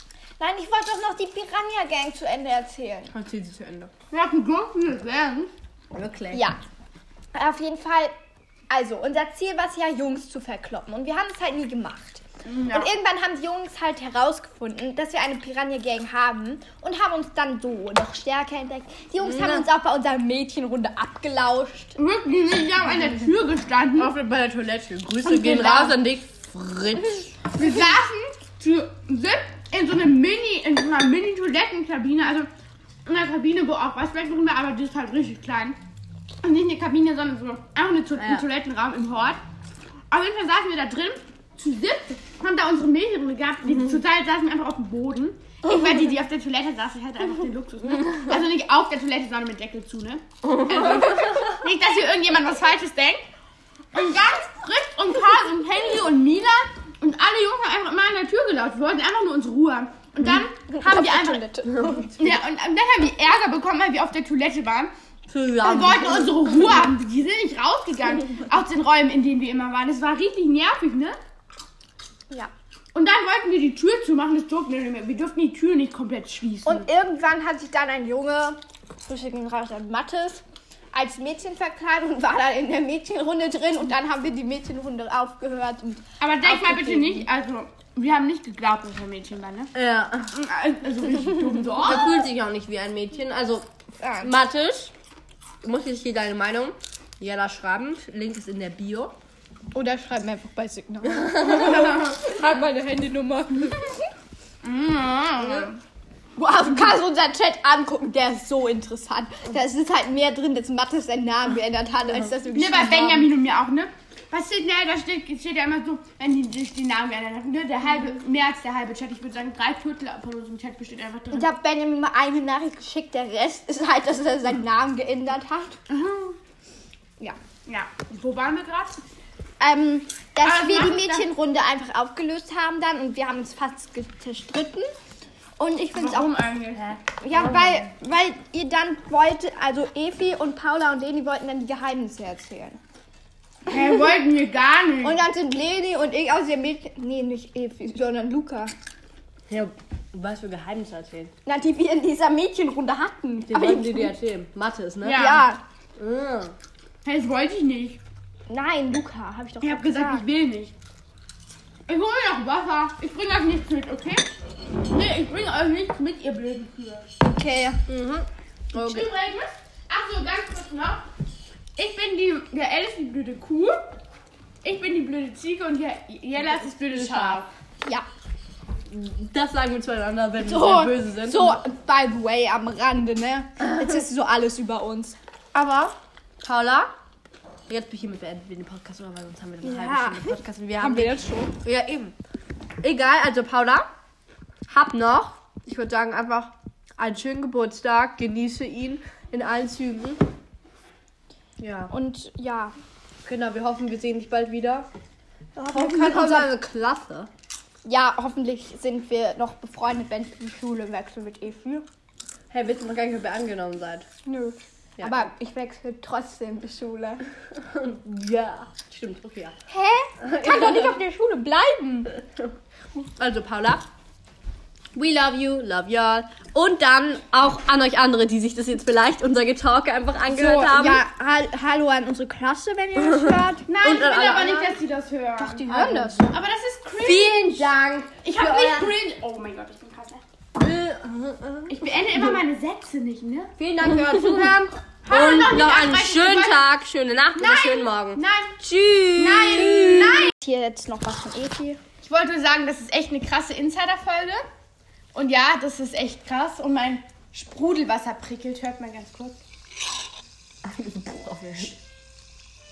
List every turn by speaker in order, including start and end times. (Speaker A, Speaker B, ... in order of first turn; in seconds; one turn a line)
Speaker A: 0.4-3.1
Speaker B: 3.1-3.9
Speaker C: 4.1-5.5
Speaker B: 5.9-6.4
Speaker A: 6.3-6.6
Speaker A: 7.3-8.1
Speaker A: 8.7-22.0
Speaker C: 12.4-12.9
Speaker B: 19.2-19.6
Speaker C: 22.0-24.1
Speaker B: 24.0-27.3
Speaker A: 25.3-25.9
Speaker C: 25.6-25.8
Speaker C: 27.5-32.5
Speaker C: 33.1-35.8
Speaker C: 36.4-39.4
Speaker B: 38.2-38.4
Speaker C: 40.1-53.2
Speaker B: 50.6-51.4
Speaker C: 53.9-61.5
Speaker A: 60.7-62.1
Speaker B: 61.7-62.4
Speaker C: 62.2-64.9
Speaker B: 65.3-66.6
Speaker C: 65.6-71.2
Speaker C: 72.9-76.9
Speaker A: 76.6-87.3
Speaker C: 86.2-89.7
Speaker B: 89.7-90.3
Speaker C: 90.3-92.2
Speaker B: 91.8-93.7
Speaker A: 94.0-94.3
Speaker B: 94.2-94.9
Speaker B: 95.6-99.1
Speaker A: 99.7-104.1
Speaker B: 101.5-101.8
Speaker C: 104.6-105.8
Speaker A: 106.4-113.3
Speaker C: 112.5-121.5
Speaker A: 121.3-125.8
Speaker C: 125.9-126.4
Speaker C: 127.7-129.0
Speaker A: 129.6-134.9
Speaker C: 130.4-131.3
Speaker A: 135.6-136.3
Speaker C: 135.9-137.8
Speaker A: 137.2-142.8
Speaker C: 143.7-145.2
Speaker A: 145.0-148.7
Speaker B: 149.5-151.3
Speaker A: 151.4-154.1
Speaker B: 153.5-155.4
Speaker C: 155.0-155.4
Speaker A: 155.1-155.6
Speaker B: 156.0-156.5
Speaker C: 157.1-158.0
Speaker A: 158.5-160.3
Speaker C: 159.6-160.7
Speaker C: 161.9-164.3
Speaker C: 164.9-167.1
Speaker A: 167.2-167.8
Speaker B: 167.9-169.1
Speaker C: 168.7-171.0
Speaker C: 171.8-173.8
Speaker C: 174.6-177.5
Speaker B: 176.9-177.4
Speaker B: 178.9-181.6
Speaker A: 180.4-185.9
Speaker B: 186.4-186.9
Speaker B: 187.7-192.2
Speaker A: 189.6-191.5
Speaker B: 192.8-193.9
Speaker B: 194.7-200.2
Speaker B: 201.6-201.9
Speaker A: 201.9-202.7
Speaker B: 203.3-204.9
Speaker A: 205.6-206.5
Speaker B: 205.7-207.3
Speaker A: 207.8-211.9
Speaker B: 212.5-214.1
Speaker A: 214.3-217.2
Speaker B: 215.0-215.3
Speaker B: 217.6-219.6
Speaker A: 219.7-222.1
Speaker B: 220.2-221.0
Speaker B: 222.3-223.8
Speaker B: 224.9-231.0
Speaker A: 230.3-233.7
Speaker B: 233.0-234.7
Speaker C: 233.7-237.7
Speaker A: 235.4-236.3
Speaker B: 235.7-236.3
Speaker B: 237.0-238.9
Speaker C: 238.2-240.2
Speaker B: 240.6-242.4
Speaker C: 241.7-243.5
Speaker B: 243.6-250.3
Speaker C: 245.1-246.6
Speaker C: 247.4-248.6
Speaker C: 249.1-250.3
Speaker A: 249.8-251.8
Speaker C: 252.0-254.4
Speaker C: 255.1-259.4
Speaker B: 260.6-261.7